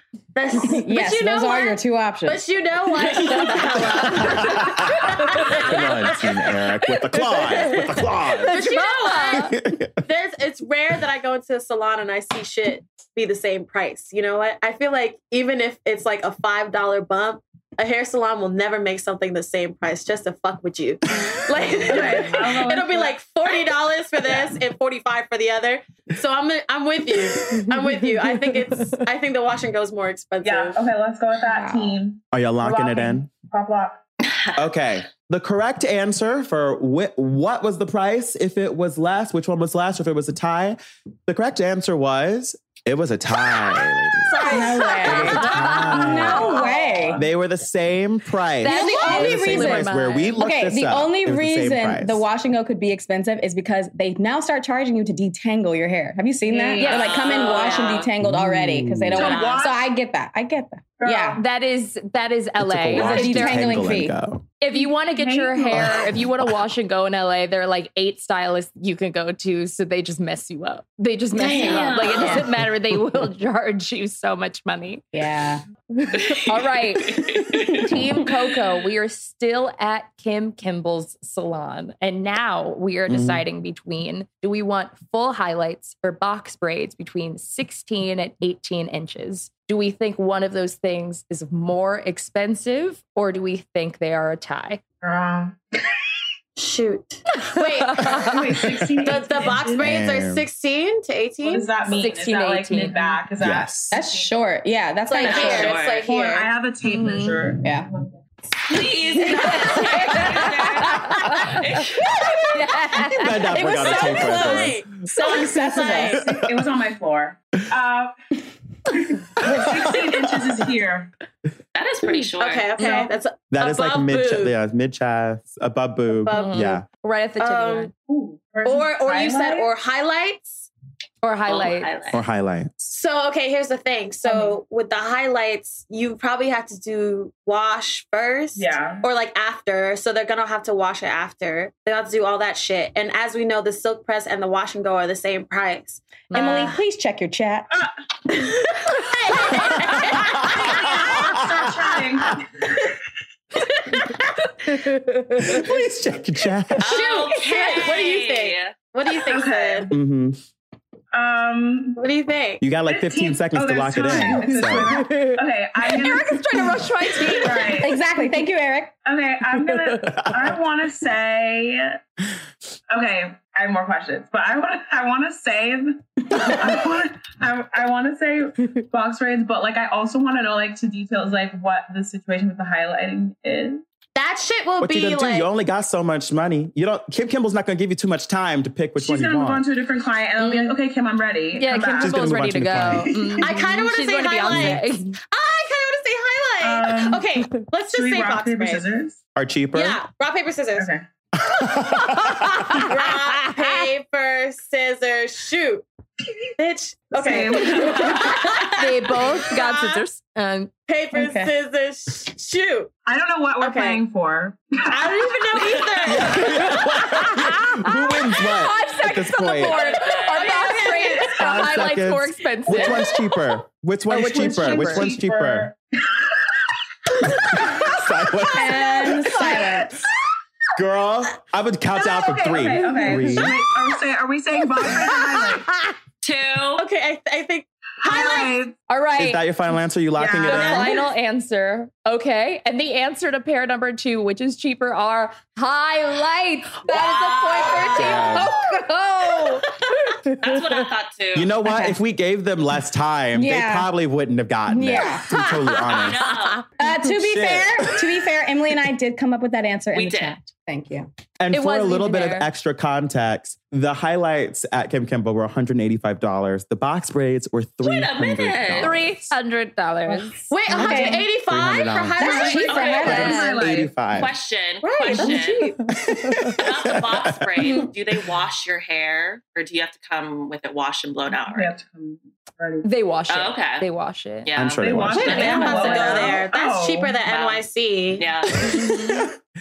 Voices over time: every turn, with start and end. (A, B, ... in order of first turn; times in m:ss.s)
0:00.3-0:06.2 A
0:00.6-0:02.4 B
0:04.2-0:05.0 C
0:05.6-0:08.6 C
0:07.6-0:07.8 D
0:08.4-0:09.5 D
0:08.4-0:30.8 A
0:09.3-0:09.9 C
0:21.9-0:23.1 E
0:22.0-0:22.3 D
0:30.4-0:34.0 E
0:31.5-0:32.0 B
0:32.3-0:33.3 C
0:34.2-0:34.5 F
0:34.6-0:44.5 C
0:44.4-0:46.4 D
0:44.4-0:47.2 B
0:44.5-0:47.2 E
0:45.0-0:46.6 C
0:47.2-0:52.2 C
0:48.6-0:50.4 D
0:48.6-1:01.4 B
0:56.5-0:57.9 E
0:56.7-0:57.8 D
0:56.8-0:58.1 F
0:58.2-0:59.6 C
0:59.1-0:59.9 E
1:01.0-1:01.4 E
1:01.4-1:03.7 D
1:02.6-1:04.4 C
1:02.9-1:04.1 B
1:04.6-1:15.0 D
1:04.7-1:06.1 E
1:05.8-1:06.2 C
1:11.3-1:12.4 A
1:11.5-1:12.4 F
1:12.6-1:13.2 C
1:15.1-1:15.6 B
1:16.0-1:34.8 D
1:16.2-1:16.4 F
1:17.2-1:17.8 F
1:23.1-1:23.4 C
1:35.0-1:36.1 E
1:36.6-1:41.8 A
1:37.6-1:38.4 D
1:38.2-1:39.9 E
1:39.8-1:40.4 C
1:41.4-1:44.3 E
1:41.9-1:43.2 D
1:43.4-1:44.0 C
1:43.9-1:45.8 B
1:45.1-1:46.5 A
1:45.2-1:46.1 F
1:46.0-1:48.2 E
1:46.8-1:47.4 D
1:47.6-1:47.9 B
1:48.6-1:52.2 F
1:49.2-1:51.6 D
1:52.5-1:53.5 D
1:53.1-1:54.8 C
1:53.4-1:56.3 A
1:53.6-1:56.2 B
1:56.1-1:58.1 E
1:56.2-1:56.6 C
1:58.9-2:01.1 E
2:01.7-2:02.8 F
2:02.4-2:04.6 A
2:02.8-2:03.1 E
2:03.5-2:06.8 C
2:06.1-2:06.7 A
2:06.3-2:07.9 D
2:07.4-2:07.9 A
2:08.0-2:09.7 E
2:08.6-2:10.7 A
2:11.2-2:11.9 D
2:11.5-2:12.2 F
2:12.1-2:12.9 C
2:12.9-2:26.7 A
2:18.5-2:19.0 E
2:26.3-2:26.7 D
2:26.3-2:27.7 B
2:28.4-2:31.4 A
2:30.5-2:31.7 C
2:30.7-2:32.9 E
2:35.4-2:36.9 C
2:36.8-2:38.7 F
2:36.8-2:39.9 A
2:39.2-2:39.9 E
2:39.9-2:40.4 C
2:41.1-2:42.0 E
2:42.0-2:42.7 A
2:42.6-2:45.1 C
2:42.8-2:48.0 E
2:44.6-2:47.9 D
2:47.8-2:48.9 B
2:49.0-2:52.0 E
2:52.9-3:03.8 E
3:04.1-3:05.5 A
3:04.8-3:09.6 C
3:09.0-3:12.2 E
3:10.4-3:10.7 D
3:11.6-3:15.2 D
3:12.0-3:13.2 C
3:12.8-3:13.7 E
3:13.4-3:18.9 A
3:16.6-3:19.2 E
3:19.4-3:20.0 C
3:19.7-3:20.9 A
3:20.8-3:21.0 E
3:21.5-3:22.7 C
3:22.3-3:25.8 A
3:26.6-3:30.0 A
3:27.1-3:28.4 E
3:28.7-3:30.7 D
3:30.9-3:32.9 A
3:31.1-3:31.5 B
3:33.0-3:35.8 E
3:33.6-3:34.0 A
3:34.9-3:36.6 A
3:36.1-3:39.8 C
3:36.7-3:43.1 D
3:39.7-3:40.8 F
3:39.9-3:41.5 A
3:41.4-3:45.7 C
3:44.1-3:45.1 D
3:44.1-3:46.6 E
3:47.5-3:49.3 C
3:48.5-3:49.9 B
3:49.2-3:49.9 E
3:50.8-3:53.6 C
3:51.9-3:55.7 E
3:56.2-3:56.8 F
3:56.8-3:58.6 A
3:58.0-3:58.7 E
3:58.9-3:59.4 D
3:59.2-4:00.9 C
4:00.2-4:00.9 E
4:00.4-4:10.3 D
4:06.9-4:08.4 F
4:08.0-4:08.5 C
4:10.3-4:11.5 F
4:11.3-4:16.3 C
4:11.6-4:12.0 B
4:13.3-4:13.9 B
4:14.7-4:15.3 B
4:15.3-4:16.3 D
4:15.9-4:16.7 F
4:16.8-4:21.1 B
4:17.0-4:18.1 C
4:19.9-4:20.4 F
4:21.4-4:29.3 C
4:21.5-4:22.5 D
4:27.8-4:29.0 F
4:28.8-4:30.5 D
4:30.5-4:33.0 A
4:30.7-4:31.3 B
4:30.8-4:31.2 E
4:31.3-4:32.2 C
4:32.2-4:33.4 B
4:32.2-4:33.9 E
4:32.5-4:33.2 F
4:32.9-4:33.6 D
4:33.0-4:34.3 C
4:34.1-4:35.7 F
4:34.8-4:35.5 A
4:35.2-4:35.8 B
4:36.0-4:37.4 C
4:36.6-4:41.7 F
4:41.4-4:42.9 E
4:42.8-4:44.5 D
4:43.3-4:43.8 F
4:44.4-4:46.4 F
4:44.5-4:45.4 C
4:44.8-4:47.2 E
4:45.2-4:46.0 B
4:45.2-4:48.3 A
4:45.6-4:45.9 D
4:47.2-4:48.8 F
4:48.6-4:49.3 C
4:48.8-4:49.2 D